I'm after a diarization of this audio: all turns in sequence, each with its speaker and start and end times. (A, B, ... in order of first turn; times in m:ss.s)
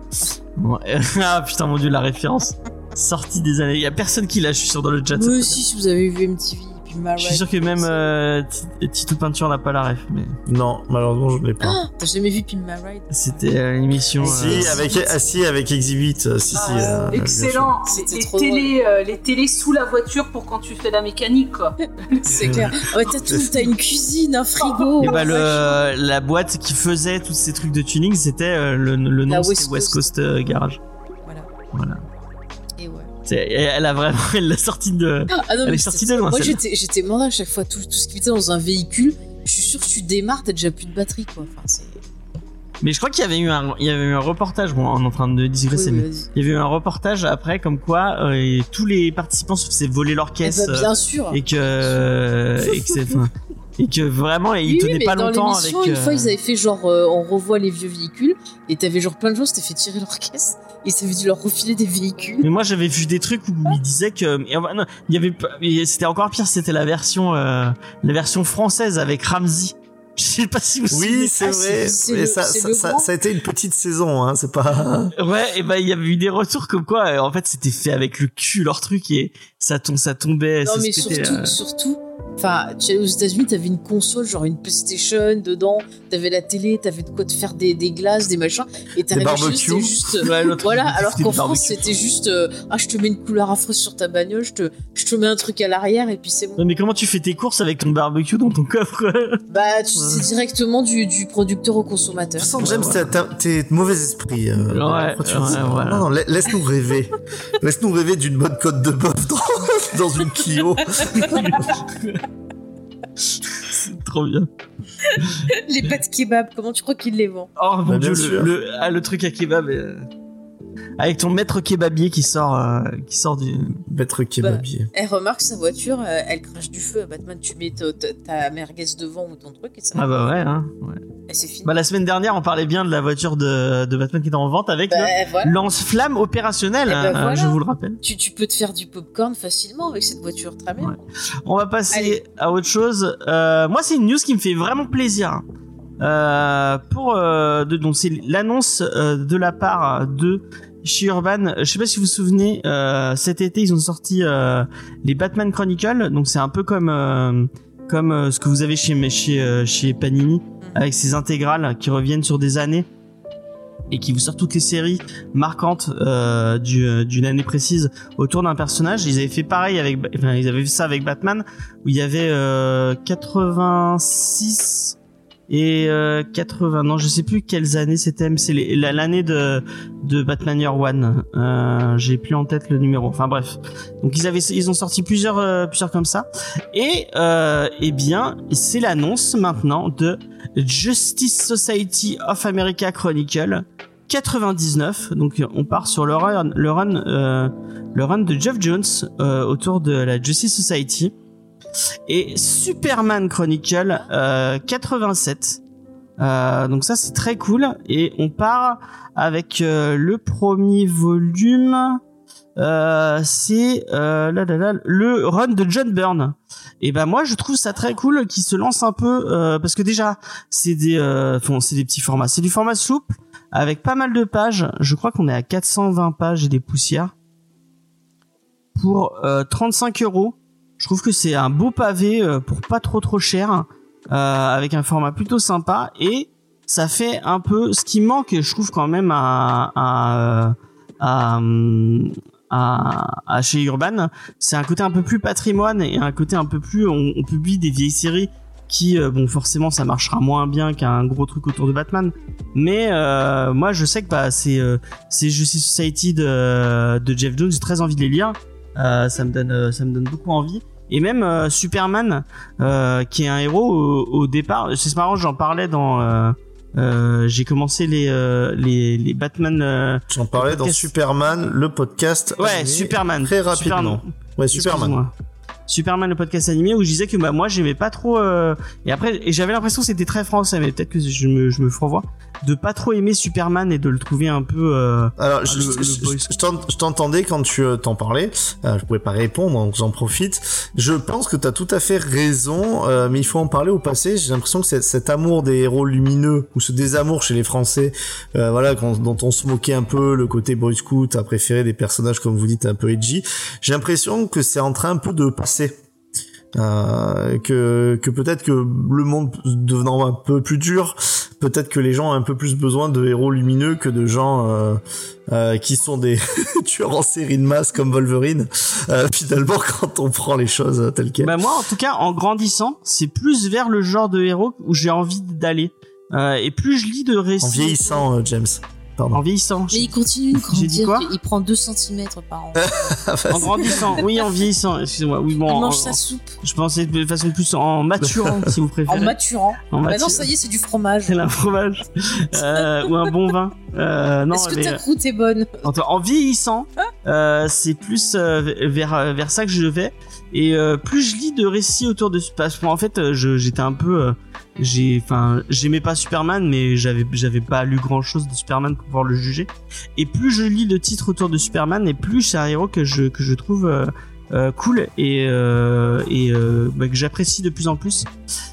0:00.6-0:05.6 A
0:05.1-0:08.1 B
0:07.2-0:10.4 A
0:10.5-0:11.8 C
0:11.6-0:13.1 B
0:13.1-0:14.8 A
0:14.2-0:15.2 B
0:14.2-0:17.7 C
0:16.5-0:17.3 B
0:16.5-0:22.4 D
0:17.8-0:18.7 B
0:22.2-0:25.8 B
0:22.3-0:22.8 A
0:23.2-0:23.6 C
0:25.0-0:30.8 A
0:25.0-0:25.3 D
0:29.3-0:30.1 B
0:31.7-0:32.0 A
0:32.8-0:33.1 B
0:33.2-0:36.6 A
0:35.3-0:42.0 B
0:42.8-0:56.3 A
0:45.7-0:46.3 B
0:50.4-0:52.0 B
0:54.6-1:02.5 B
1:02.4-1:11.4 A
1:10.9-1:15.1 C
1:11.4-1:13.1 B
1:15.1-1:21.6 A
1:20.6-1:36.6 B
1:29.1-1:30.2 C
1:30.2-1:31.8 A
1:36.6-1:39.4 A
1:39.5-1:42.5 B
1:40.0-1:40.3 A
1:42.4-1:51.6 C
1:42.6-1:43.1 A
1:44.7-1:46.1 A
1:51.1-1:52.2 A
1:53.4-1:54.5 A
1:55.0-1:57.5 B
1:57.6-2:00.1 A
1:57.8-1:58.5 C
2:01.0-2:03.8 A
2:03.9-2:04.9 C
2:04.4-2:10.4 B
2:09.9-2:11.0 A
2:11.3-2:11.7 B
2:11.6-2:18.0 A
2:14.9-2:15.5 B
2:16.8-2:21.0 B
2:20.8-2:25.4 A
2:21.9-2:22.2 B
2:26.0-2:42.9 A
2:43.9-2:55.0 A
2:55.5-3:21.1 A
3:22.1-3:25.6 A
3:26.2-3:32.0 A
3:32.6-3:47.1 A
3:48.8-4:30.9 A
4:30.1-4:35.0 C
4:32.4-4:35.1 A
4:35.7-4:46.3 A
4:45.2-5:05.8 C
5:06.5-5:21.3 C
5:21.2-5:28.0 A
5:27.4-5:29.2 C
5:29.1-5:31.1 A
5:29.7-5:32.7 B
5:32.6-5:34.0 C
5:33.3-5:39.2 A
5:35.5-5:36.4 B
5:38.0-5:38.5 C
5:38.9-5:41.3 B
5:39.7-5:40.3 A
5:41.0-5:44.8 A
5:42.3-5:42.6 B
5:44.3-5:45.7 B
5:45.6-6:08.1 A